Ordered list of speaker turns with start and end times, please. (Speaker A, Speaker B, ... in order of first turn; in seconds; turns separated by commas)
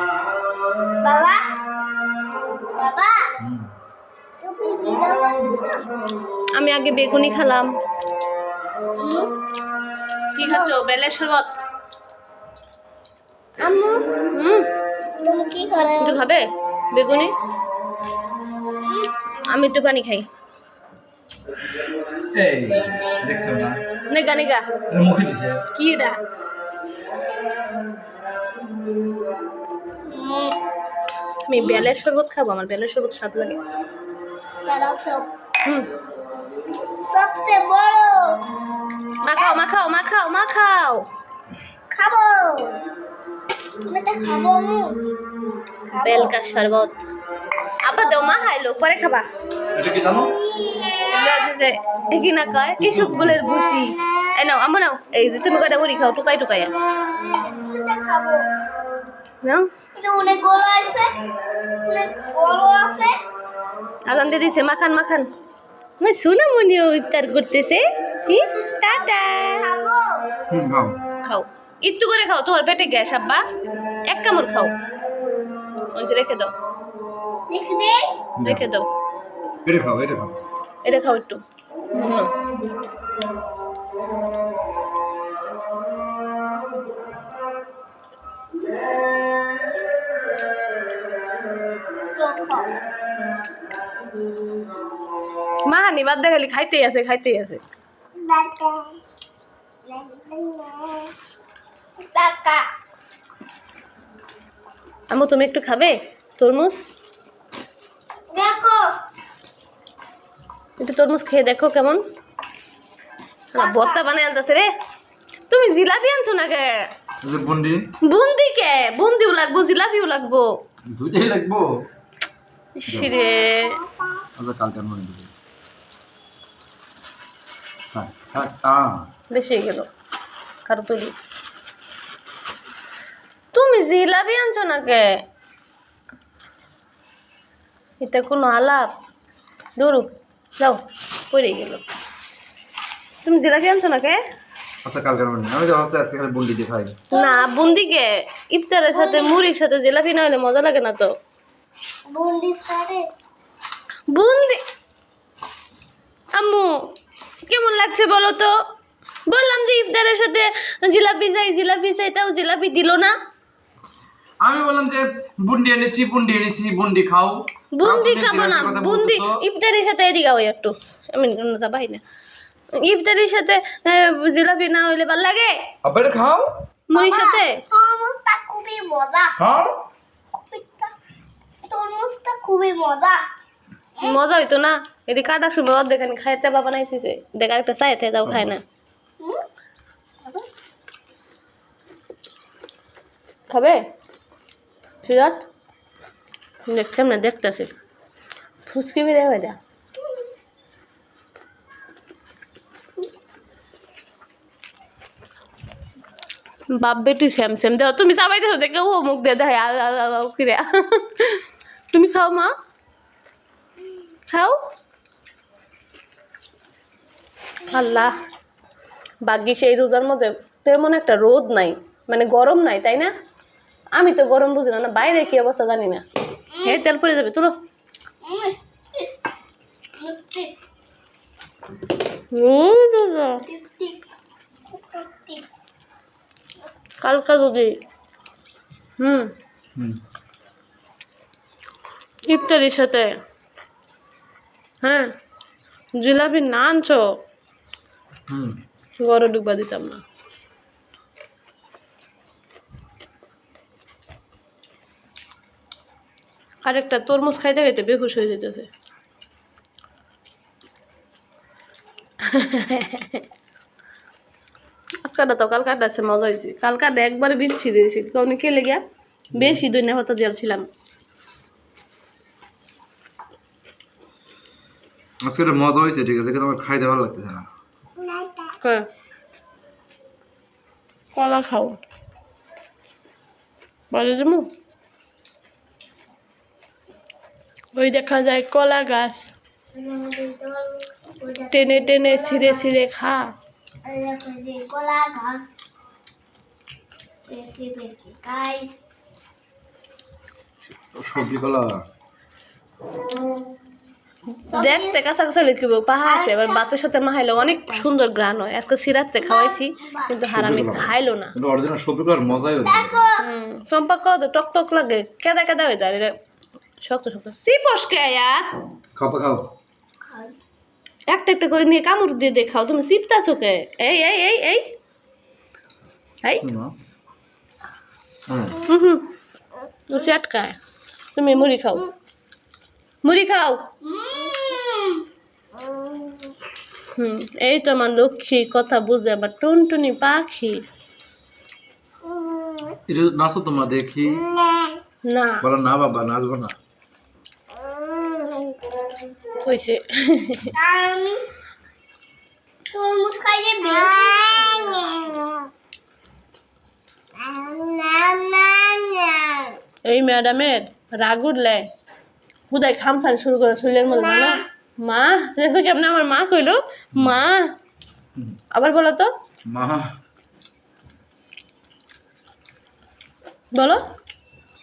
Speaker A: 1.0-1.4, Speaker A: 2.5-3.3, Speaker A: 4.4-5.8, Speaker B: 6.5-7.7, Speaker A: 9.0-9.3, Speaker B: 10.4-11.5, Speaker A: 10.4-10.8, Speaker A: 13.6-14.1, Speaker B: 14.3-14.7, Speaker A: 15.2-16.2, Speaker B: 16.0-17.3, Speaker A: 18.9-19.1, Speaker B: 19.5-20.3, Speaker C: 22.3-23.8, Speaker A: 22.6-23.2, Speaker B: 24.1-24.6, Speaker C: 24.9-25.6, Speaker B: 25.7-26.2, Speaker A: 30.1-30.6, Speaker B: 31.5-33.6, Speaker A: 31.6-31.9, Speaker A: 34.6-35.3, Speaker B: 35.6-35.9, Speaker A: 37.1-38.4, Speaker B: 39.2-41.1, Speaker A: 41.9-42.8, Speaker A: 43.9-45.0, Speaker A: 45.9-46.4, Speaker B: 46.0-47.0, Speaker B: 47.8-49.3, Speaker C: 49.8-50.3, Speaker A: 50.4-51.1, Speaker B: 51.1-56.7, Speaker C: 52.8-53.4, Speaker A: 57.5-58.5, Speaker B: 59.4-59.7, Speaker A: 60.0-61.2, Speaker A: 61.9-63.1, Speaker B: 64.1-65.3, Speaker B: 66.0-69.7, Speaker A: 68.5-70.3, Speaker C: 70.5-71.0, Speaker B: 71.2-73.4, Speaker B: 74.1-74.7, Speaker B: 75.9-76.5, Speaker A: 77.5-78.1, Speaker C: 78.4-78.7, Speaker B: 78.4-78.9, Speaker C: 79.7-80.4, Speaker B: 80.8-81.4, Speaker B: 81.9-82.3, Speaker A: 92.2-92.7, Speaker B: 95.7-97.6, Speaker A: 98.2-99.0, Speaker A: 99.9-101.1, Speaker A: 102.0-102.7, Speaker B: 105.1-106.8, Speaker A: 108.3-108.9, Speaker B: 110.8-112.0, Speaker A: 113.5-114.0, Speaker B: 113.5-114.7, Speaker B: 115.5-116.9, Speaker C: 117.2-117.9, Speaker B: 118.0-120.5, Speaker C: 120.9-121.7, Speaker B: 122.8-123.8, Speaker C: 122.9-123.2, Speaker A: 123.2-124.2, Speaker C: 124.4-125.3, Speaker C: 127.9-129.1, Speaker B: 129.3-129.9, Speaker B: 130.7-131.1, Speaker B: 133.5-135.1, Speaker B: 138.0-138.9, Speaker B: 139.8-140.8, Speaker B: 141.3-141.8, Speaker B: 143.2-144.2, Speaker C: 144.8-147.0, Speaker B: 147.1-151.1, Speaker A: 147.2-147.7, Speaker A: 148.9-149.4, Speaker A: 152.1-153.1, Speaker B: 154.1-154.6, Speaker B: 156.3-156.8, Speaker B: 157.5-158.5, Speaker B: 159.3-163.2, Speaker C: 164.4-169.4, Speaker B: 167.7-172.0, Speaker B: 172.8-175.6, Speaker C: 175.8-176.5, Speaker B: 176.9-177.6, Speaker A: 176.9-179.3, Speaker C: 179.4-179.8, Speaker A: 180.3-180.9, Speaker A: 181.7-183.2, Speaker B: 184.0-188.6, Speaker C: 188.2-188.5, Speaker B: 193.5-193.8, Speaker B: 195.0-195.4, Speaker B: 196.7-197.7, Speaker B: 198.7-199.6, Speaker B: 206.7-212.5, Speaker B: 214.3-214.6, Speaker B: 217.7-218.1, Speaker B: 219.2-223.1, Speaker B: 224.0-226.0, Speaker B: 226.6-227.5, Speaker A: 228.2-229.1, Speaker A: 230.0-230.5, Speaker B: 232.3-233.4, Speaker A: 233.4-234.0, Speaker A: 234.7-235.5, Speaker B: 237.0-237.7, Speaker B: 239.0-239.3, Speaker B: 242.3-243.1, Speaker B: 244.8-245.1, Speaker B: 246.0-247.0, Speaker C: 248.3-248.6, Speaker B: 249.0-250.0, Speaker B: 256.7-258.7, Speaker B: 262.2-263.2, Speaker B: 265.0-268.8, Speaker C: 269.4-269.6, Speaker B: 269.4-270.6, Speaker C: 275.2-277.5, Speaker A: 278.0-278.5, Speaker B: 281.1-281.8, Speaker B: 283.9-284.4, Speaker B: 287.8-289.2, Speaker A: 289.7-292.7, Speaker B: 291.5-293.3, Speaker A: 293.9-295.5, Speaker A: 297.3-298.7, Speaker C: 300.6-301.8, Speaker A: 304.5-305.0, Speaker B: 304.5-311.3, Speaker A: 306.1-306.6, Speaker A: 309.2-310.1, Speaker C: 310.3-313.0, Speaker A: 312.6-313.2, Speaker B: 313.2-316.1, Speaker B: 316.8-318.5, Speaker C: 318.9-319.5, Speaker A: 320.1-320.4, Speaker B: 321.1-324.7, Speaker C: 326.4-326.7, Speaker C: 328.3-328.6, Speaker B: 328.6-329.1, Speaker B: 329.9-330.6, Speaker B: 331.1-331.9, Speaker B: 333.0-333.7, Speaker A: 333.8-335.1, Speaker A: 335.6-336.3, Speaker B: 337.0-340.6, Speaker A: 342.1-342.8, Speaker C: 342.9-344.2, Speaker A: 344.3-344.8, Speaker B: 345.0-345.4, Speaker C: 345.4-346.6, Speaker A: 347.6-348.9, Speaker B: 349.4-350.5, Speaker A: 350.5-351.2, Speaker A: 352.7-355.5, Speaker A: 357.2-359.6, Speaker B: 359.9-361.7, Speaker B: 362.5-367.5, Speaker A: 363.9-364.4, Speaker B: 368.5-369.1, Speaker C: 369.5-369.9, Speaker B: 373.5-373.8